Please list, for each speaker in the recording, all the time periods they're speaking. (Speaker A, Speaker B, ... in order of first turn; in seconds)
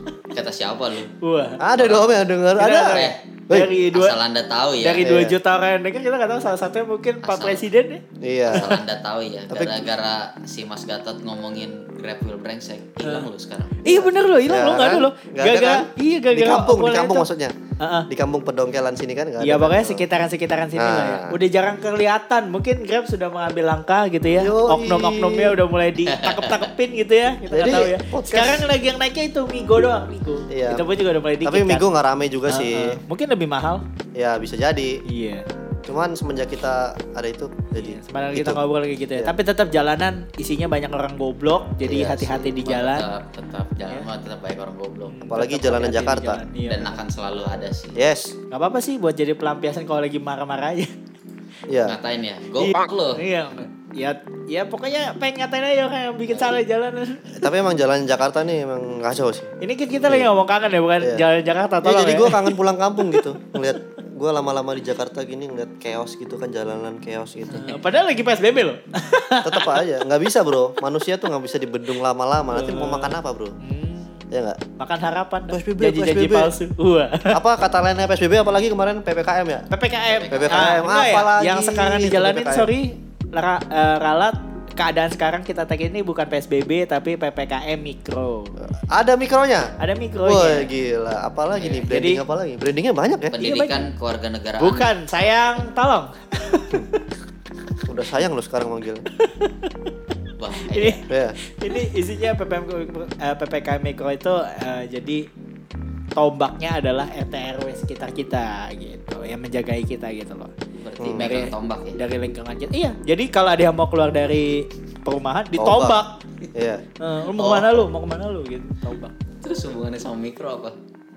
Speaker A: 0.3-1.1, 1.7-2.1, 2.9-3.2, 3.9-5.1, 7.2-7.6, 8.5-13.8, 26.1-26.7, 42.6-45.2, 46.6-48.0, 51.8-53.2, 56.3-56.6, 80.1-80.6, 91.5-91.9, 93.3-94.9, 100.4-101.0, 110.8-112.0, 117.4-117.8, 119.4-120.7
Speaker B: 1.2-1.6, 2.6-4.2, 4.8-8.0, 13.0-13.3, 13.8-17.2, 17.8-18.1, 19.4-31.9, 32.5-33.8, 35.0-35.4, 37.7-43.0, 45.1-47.0, 48.5-50.9, 52.6-57.5, 59.6-63.2, 67.5-69.8, 72.5-74.2, 74.8-77.4, 79.7-88.5, 89.8-90.7, 91.9-92.2, 93.4-93.8, 94.6-97.0, 99.2-99.9, 100.7-105.2, 106.2-110.5, 111.2-116.2, 117.0-119.1
Speaker C: 1.6-3.8, 5.0-5.4, 8.2-8.7, 9.5-9.8, 13.9-17.5, 18.1-20.1, 20.7-21.4, 24.4-25.6, 27.5-28.7, 30.5-30.9, 31.4-33.0, 34.1-35.0, 35.9-38.6, 41.8-42.4, 45.3-46.4, 47.9-48.3, 51.7-52.0, 57.3-59.5, 60.0-60.3, 61.8-67.8, 69.4-73.6, 74.3-74.6, 75.5-76.5, 77.3-79.7, 80.3-82.7, 88.6-93.3, 97.8-99.0, 101.1-101.4, 111.0-111.5, 115.5-116.0, 116.5-116.8